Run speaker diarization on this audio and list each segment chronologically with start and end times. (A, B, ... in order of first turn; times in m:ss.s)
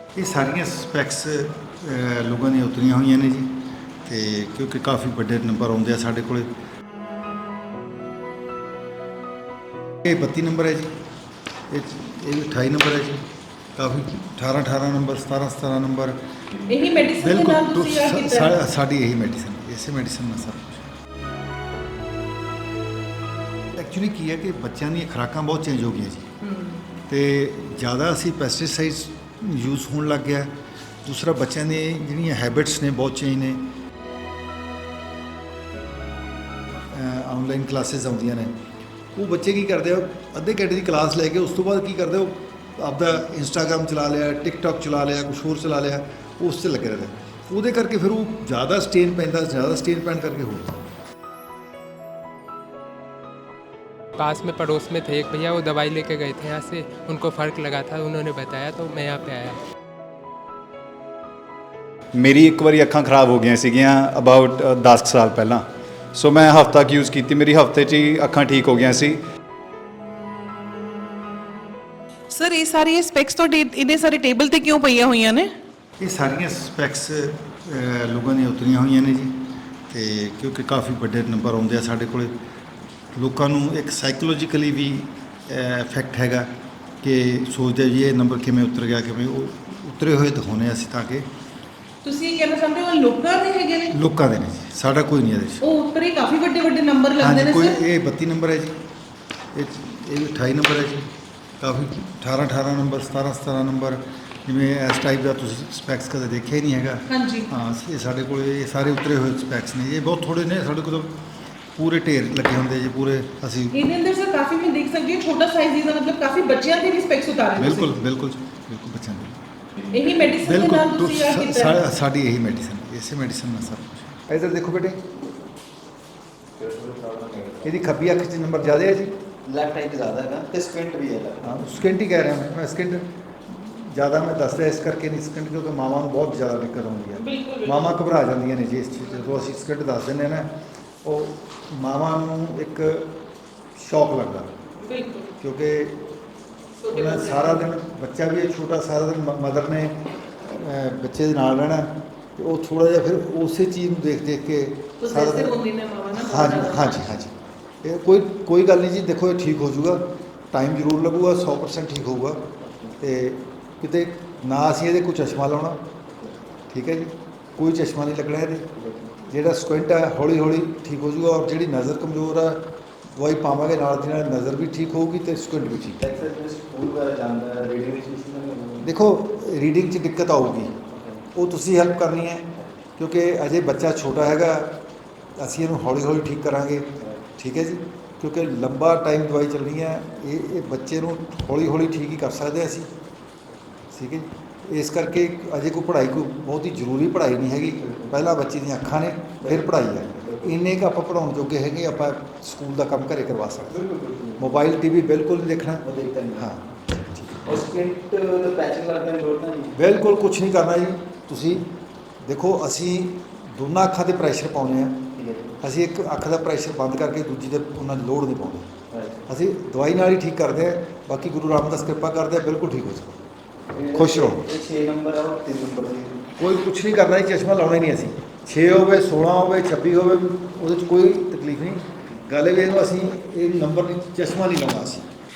0:00.1-0:06.5 A
0:10.0-0:10.9 A
0:11.7-0:16.2 A
0:16.6-0:18.6 B
0:17.2-0:20.8 A
0:23.7-0:26.3 A
0:26.4-0:26.8 B
0:27.1-0:33.7 A
0:36.9-0:38.5 A
0:39.1-0:50.8 A
0:54.2-0:59.6 C
1:02.1-1:09.2 D
1:12.3-1:15.5 B
1:16.0-1:22.3 A
1:23.1-1:26.5 A
1:27.0-1:31.3 A
1:32.0-1:34.0 B
1:33.9-1:35.6 A
1:35.6-1:37.8 B
1:37.2-1:38.8 A
1:39.5-1:51.2 A
1:47.1-1:47.5 B
1:51.8-1:53.8 A
1:53.7-1:57.9 B
1:57.6-1:59.4 A
1:59.9-2:01.8 B
2:00.4-2:05.0 A
2:06.6-2:07.7 E
2:07.6-2:09.2 A
2:09.5-2:11.5 E
2:11.4-2:20.5 A
2:17.2-2:17.9 B
2:21.0-2:23.2 A
2:23.8-2:24.5 A
2:24.8-2:25.3 B
2:25.4-2:26.2 A
2:26.8-2:27.6 B
2:26.9-2:35.6 A
2:35.0-2:37.0 B
2:36.1-2:45.8 A
2:46.7-2:48.7 A
2:49.2-2:56.0 A
2:56.0-2:58.9 E
2:58.8-3:00.8 A
3:01.3-3:04.8 A
3:05.4-3:12.9 A
3:13.9-3:23.8 A
3:23.7-3:24.4 E
3:24.4-3:25.8 A
3:25.9-3:26.4 E
3:26.4-3:27.4 A
3:27.4-3:29.8 E
3:29.7-3:31.7 A
3:32.2-3:38.7 A
3:35.2-3:35.5 E
3:39.3-3:43.2 A
3:43.7-3:46.3 E
3:43.9-3:44.5 A
3:46.4-3:55.1 A